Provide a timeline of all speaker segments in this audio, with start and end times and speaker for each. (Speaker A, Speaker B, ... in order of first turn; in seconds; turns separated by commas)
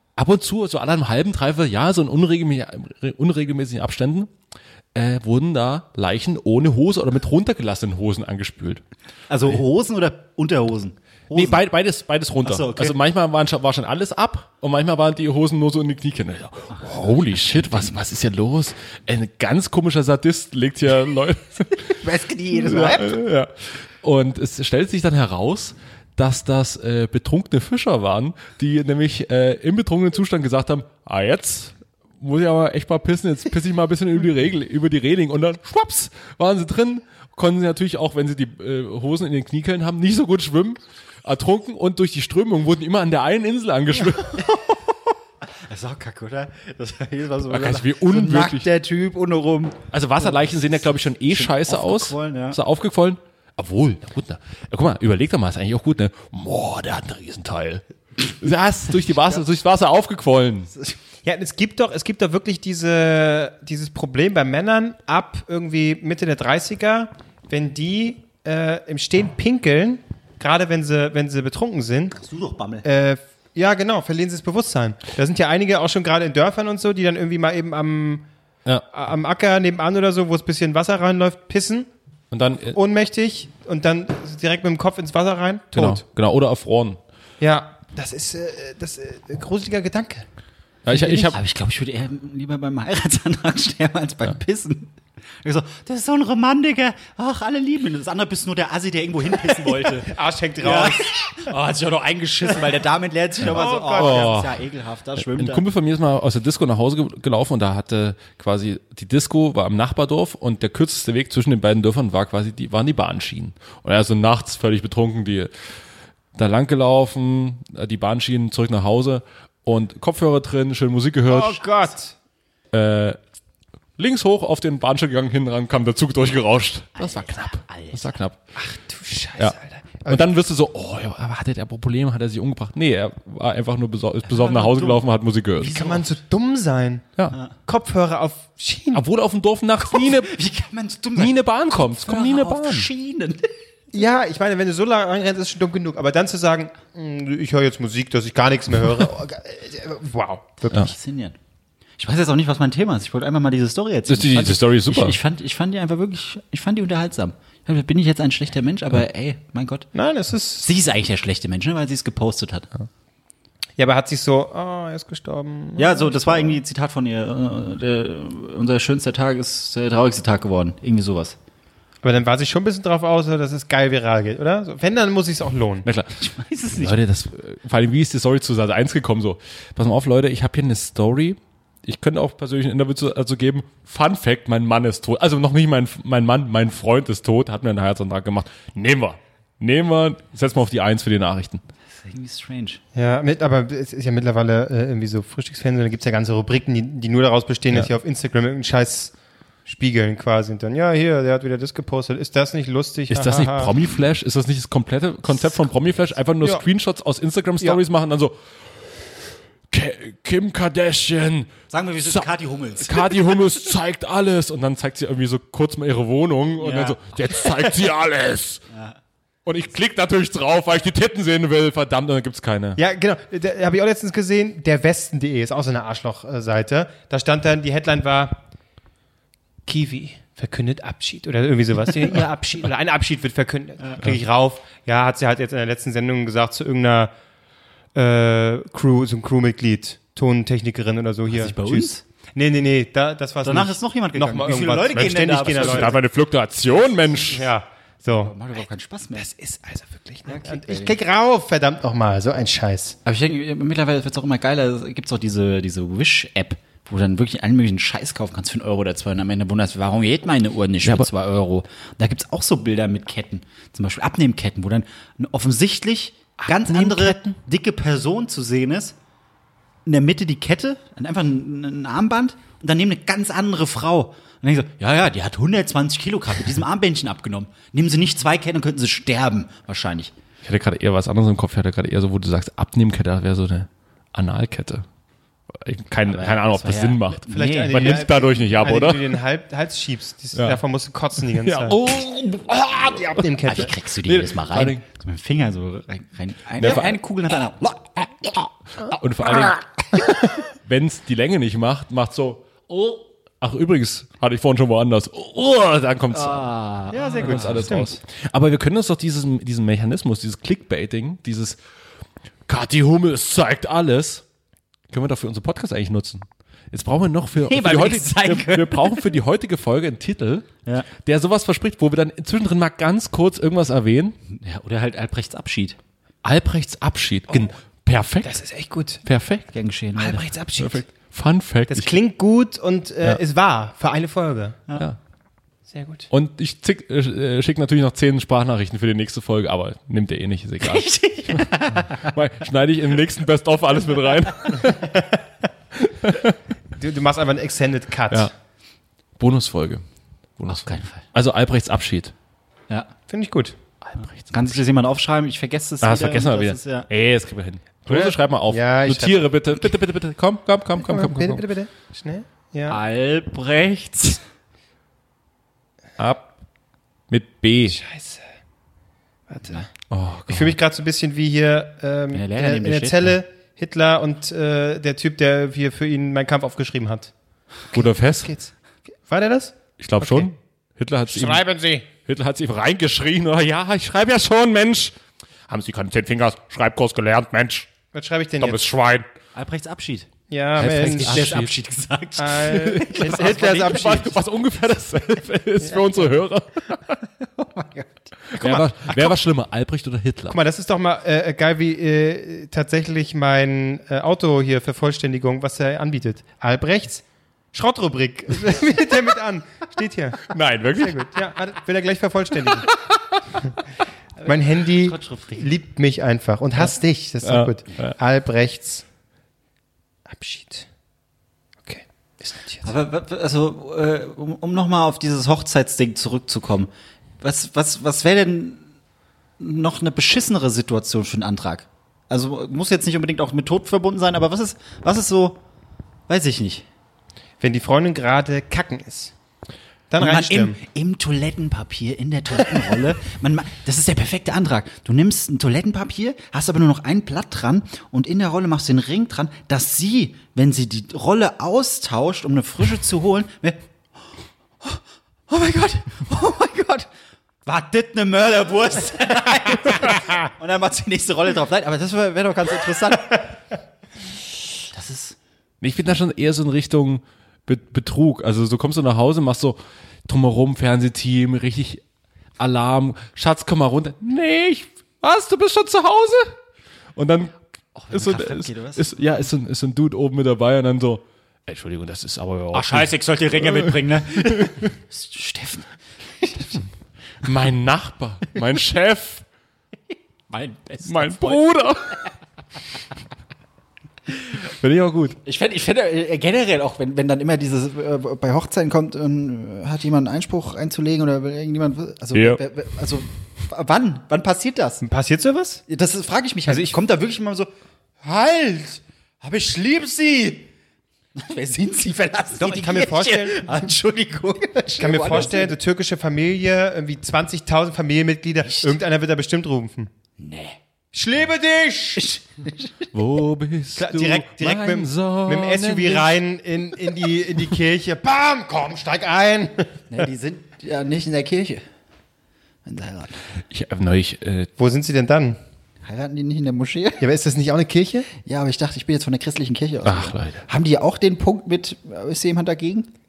Speaker A: 0.2-4.3, Speaker A: 5.0-8.8, Speaker B: 9.3-11.6, Speaker A: 11.3-22.0, Speaker B: 12.4-13.0, Speaker B: 16.7-17.9, Speaker B: 22.0-23.2, Speaker A: 22.5-44.5, Speaker B: 44.4-50.7, Speaker A: 47.5-48.7, Speaker A: 49.9-60.7, Speaker B: 51.3-52.6, Speaker C: 61.2-72.2, Speaker B: 72.2-72.9, Speaker C: 72.8-78.3, Speaker C: 78.9-81.9, Speaker A: 82.3-82.8, Speaker C: 82.7-86.0, Speaker A: 85.8-87.0, Speaker C: 87.4-90.2, Speaker A: 90.8-91.4, Speaker C: 90.9-91.3, Speaker B: 91.3-105.6, Speaker C: 100.0-101.5, Speaker A: 103.4-104.6, Speaker C: 103.5-104.4, Speaker A: 105.2-115.5, Speaker A: 116.4-121.6, Speaker C: 121.3-122.2, Speaker A: 122.7-123.2, Speaker A: 124.0-128.4, Speaker B: 127.0-128.2, Speaker C: 128.6-130.3, Speaker A: 129.4-135.9, Speaker B: 134.3-135.1, Speaker C: 135.6-137.1, Speaker B: 135.6-136.0, Speaker C: 137.7-139.0, Speaker A: 138.9-140.3, Speaker B: 139.8-143.5, Speaker A: 141.2-142.9, Speaker C: 143.9-150.9, Speaker B: 150.7-151.4, Speaker B: 152.0-159.9, Speaker A: 154.1-155.2, Speaker C: 159.9-160.7, Speaker B: 160.6-162.7, Speaker C: 163.8-166.6, Speaker B: 165.8-171.4, Speaker C: 172.0-175.9, Speaker A: 175.8-176.1, Speaker B: 176.2-177.0, Speaker A: 176.8-191.6, Speaker B: 191.9-192.8, Speaker C: 192.9-199.1, Speaker C: 199.7-203.7, Speaker A: 203.1-208.4, Speaker A: 209.7-212.2, Speaker B: 211.7-213.3, Speaker A: 212.8-218.6, Speaker B: 216.6-217.5, Speaker B: 218.7-219.0, Speaker A: 219.5-222.8, Speaker C: 222.8-228.4, Speaker C: 229.7-237.1, Speaker B: 233.8-234.1, Speaker C: 237.9-246.0, Speaker B: 241.3-242.0, Speaker B: 243.4-246.0, Speaker A: 244.9-247.5, Speaker C: 247.3-248.3, Speaker B: 248.1-249.3, Speaker C: 249.2-253.0, Speaker B: 250.3-251.0, Speaker B: 253.1-269.0, Speaker A: 260.8-261.1, Speaker A: 266.5-267.3, Speaker B: 269.9-280.1, Speaker A: 280.4-284.9, Speaker A: 285.5-289.2, Speaker B: 286.1-288.1, Speaker C: 287.3-291.8, Speaker A: 290.4-290.6, Speaker A: 291.2-294.8, Speaker C: 292.9-293.7, Speaker B: 293.4-298.5, Speaker A: 296.6-297.0, Speaker A: 298.8-299.7, Speaker A: 300.4-306.5, Speaker B: 306.1-307.8, Speaker C: 306.9-308.0, Speaker A: 307.2-311.6, Speaker A: 312.5-314.2, Speaker A: 314.9-324.2, Speaker B: 317.4-319.1, Speaker B: 324.3-325.8, Speaker A: 326.2-328.4, Speaker C: 328.2-329.0, Speaker A: 329.1-329.5, Speaker B: 329.5-330.4, Speaker C: 330.0-330.9, Speaker A: 330.6-331.9, Speaker C: 331.7-334.6, Speaker C: 335.7-336.1, Speaker A: 336.1-345.0, Speaker B: 340.6-342.1, Speaker C: 344.8-345.2, Speaker A: 346.0-346.4, Speaker C: 346.8-348.3, Speaker A: 349.2-349.8, Speaker A: 350.4-352.1, Speaker B: 350.5-351.0, Speaker C: 353.1-353.6, Speaker A: 353.8-354.6, Speaker B: 354.3-356.9, Speaker A: 355.8-361.4, Speaker C: 357.9-359.7, Speaker C: 360.8-362.8, Speaker B: 362.7-364.2, Speaker A: 366.0-366.3, Speaker A: 367.1-367.8, Speaker C: 367.7-368.2, Speaker C: 369.3-369.7, Speaker A: 369.9-370.6, Speaker C: 370.3-377.1, Speaker B: 372.1-373.2, Speaker C: 377.7-378.5, Speaker A: 377.7-378.3, Speaker C: 379.1-380.3, Speaker A: 379.8-381.4, Speaker C: 381.1-381.9, Speaker A: 382.0-384.9, Speaker A: 385.5-387.7, Speaker C: 387.9-388.6, Speaker A: 388.4-389.1, Speaker B: 389.4-390.1, Speaker C: 390.3-391.2, Speaker A: 390.6-391.5, Speaker B: 390.9-394.1, Speaker C: 392.2-394.1, Speaker A: 392.4-397.0, Speaker B: 397.2-398.1, Speaker A: 398.4-400.4, Speaker C: 398.4-398.7, Speaker C: 400.3-412.7, Speaker A: 410.3-411.1, Speaker B: 414.2-415.5, Speaker C: 414.2-418.9, Speaker A: 417.2-417.9, Speaker C: 420.1-420.7, Speaker C: 421.6-422.7, Speaker B: 422.6-428.6, Speaker B: 429.4-435.4, Speaker B: 436.1-436.7, Speaker C: 437.4-439.1, Speaker C: 439.9-440.6, Speaker B: 440.0-453.7, Speaker B: 454.6-456.9, Speaker B: 457.4-463.4, Speaker B: 464.7-465.2, Speaker A: 465.6-471.8, Speaker A: 472.4-476.4, Speaker A: 477.0-477.4, Speaker B: 477.8-478.9, Speaker A: 477.9-484.7, Speaker B: 482.5-485.7, Speaker B: 486.2-486.6, Speaker A: 487.2-489.2, Speaker B: 490.3-491.9, Speaker A: 490.9-492.0, Speaker A: 494.5-495.2, Speaker B: 495.2-504.8, Speaker A: 502.1-502.4, Speaker C: 504.8-505.6, Speaker B: 505.7-507.5, Speaker C: 506.5-506.8, Speaker B: 508.0-510.5, Speaker B: 511.1-515.6, Speaker C: 512.4-513.7, Speaker C: 514.8-519.9, Speaker B: 518.4-518.8, Speaker B: 520.2-520.6, Speaker C: 520.9-522.2, Speaker B: 522.0-522.9, Speaker A: 522.9-526.2, Speaker C: 523.8-529.7, Speaker B: 529.9-531.6, Speaker B: 532.6-533.2, Speaker A: 533.5-534.5, Speaker C: 534.6-535.4, Speaker B: 535.8-537.0, Speaker C: 537.0-538.1, Speaker B: 538.1-542.9, Speaker A: 539.8-540.4